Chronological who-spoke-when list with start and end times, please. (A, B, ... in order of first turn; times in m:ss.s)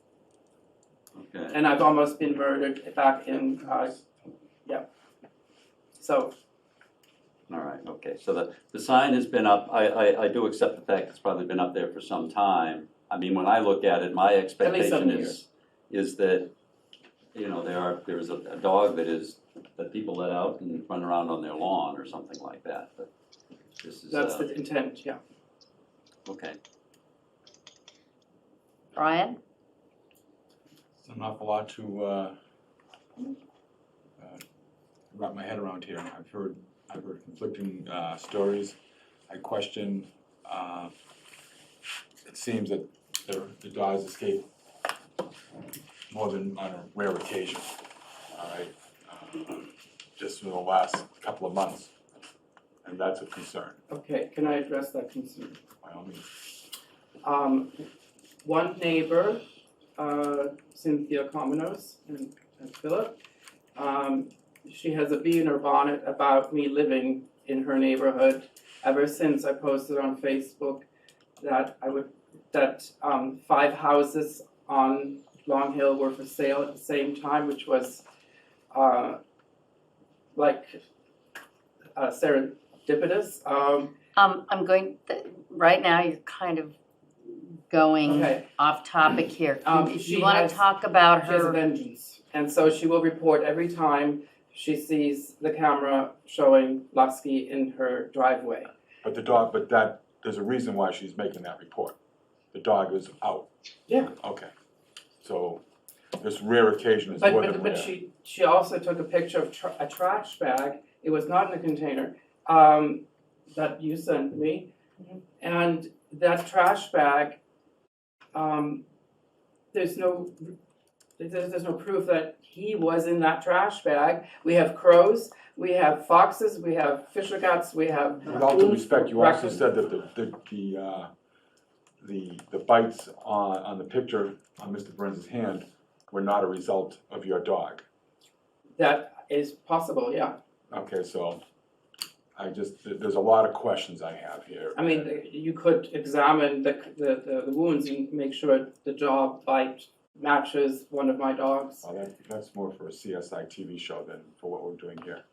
0:01.2-0:01.6 A
0:01.5-0:04.0 B
0:06.0-0:06.3 B
0:07.5-0:16.5 A
0:14.6-0:15.4 B
0:17.4-0:23.1 A
0:23.8-0:24.5 A
0:24.1-0:25.2 B
0:26.3-0:26.6 A
0:29.0-0:29.4 C
0:31.0-0:32.4 D
0:35.1-0:38.8 D
0:39.3-0:40.9 D
0:42.3-0:44.5 D
0:46.1-0:47.8 D
0:48.3-0:51.9 D
0:52.8-0:53.8 D
0:53.9-0:55.6 B
0:55.8-0:56.2 D
0:57.2-0:57.8 B
0:58.4-0:59.4 B
1:00.0-1:03.2 B
1:03.8-1:10.9 B
1:11.4-1:18.0 B
1:18.7-1:19.2 B
1:20.4-1:20.8 B
1:22.0-1:23.9 B
1:24.2-1:26.8 C
1:27.7-1:31.6 C
1:28.0-1:28.5 B
1:29.6-1:30.6 B
1:31.2-1:38.7 B
1:39.0-1:42.0 D
1:42.5-1:43.5 D
1:44.1-1:44.5 D
1:45.2-1:45.6 D
1:46.2-1:47.9 D
1:47.2-1:57.4 B
1:58.3-1:58.8 B
1:59.7-2:00.5 B
2:01.2-2:09.6 B
2:08.3-2:11.1 D
2:12.0-2:17.8 D
2:18.8-2:20.4 B
2:20.7-2:21.4 D
2:22.4-2:25.2 D
2:24.8-2:31.9 B
2:31.8-2:35.2 D